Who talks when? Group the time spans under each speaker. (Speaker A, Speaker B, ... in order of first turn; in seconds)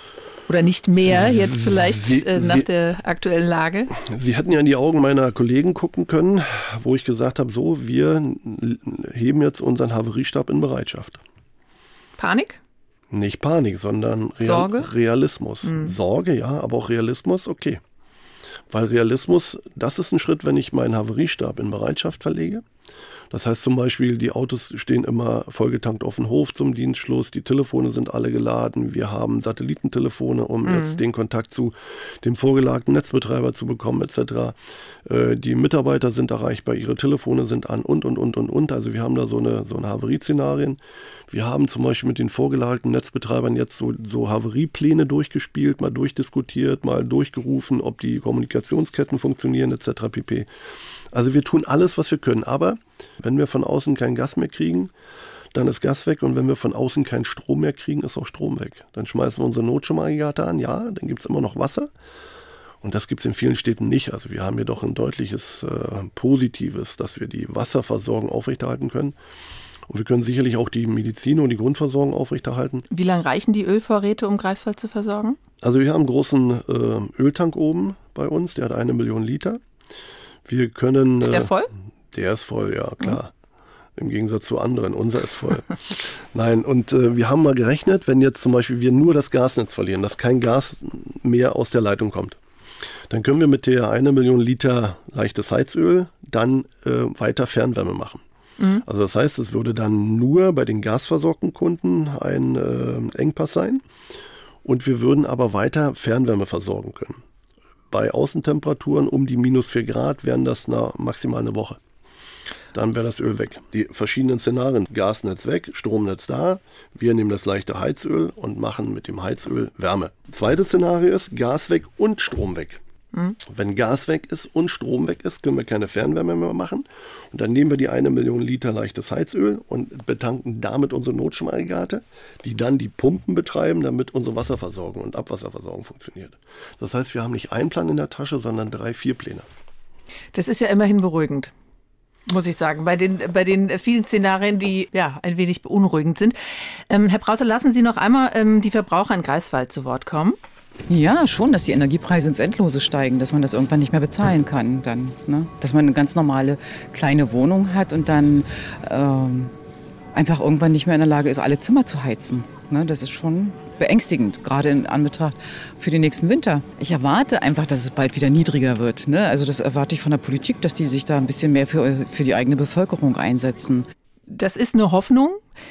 Speaker A: 0.5-4.0, 12.2-12.6, 14.4-14.9, 15.6-15.9, 30.6-31.0, 72.9-75.4, 81.2-81.7, 98.6-98.8, 140.3-141.5, 142.3-146.3, 146.9-150.4, 174.3-175.4
Speaker B: 1.1-2.7, 4.0-11.2, 13.1-17.8, 18.7-22.6, 23.3-50.5, 51.1-54.9, 55.5-61.9, 62.8-69.1, 69.9-72.8, 75.6-79.6, 80.5-81.5, 82.1-83.3, 84.0-92.4, 93.1-98.2, 98.8-103.8, 104.6-107.2, 107.9-111.8, 112.7-122.8, 123.4-139.4
Speaker C: 150.9-159.5, 160.1-173.9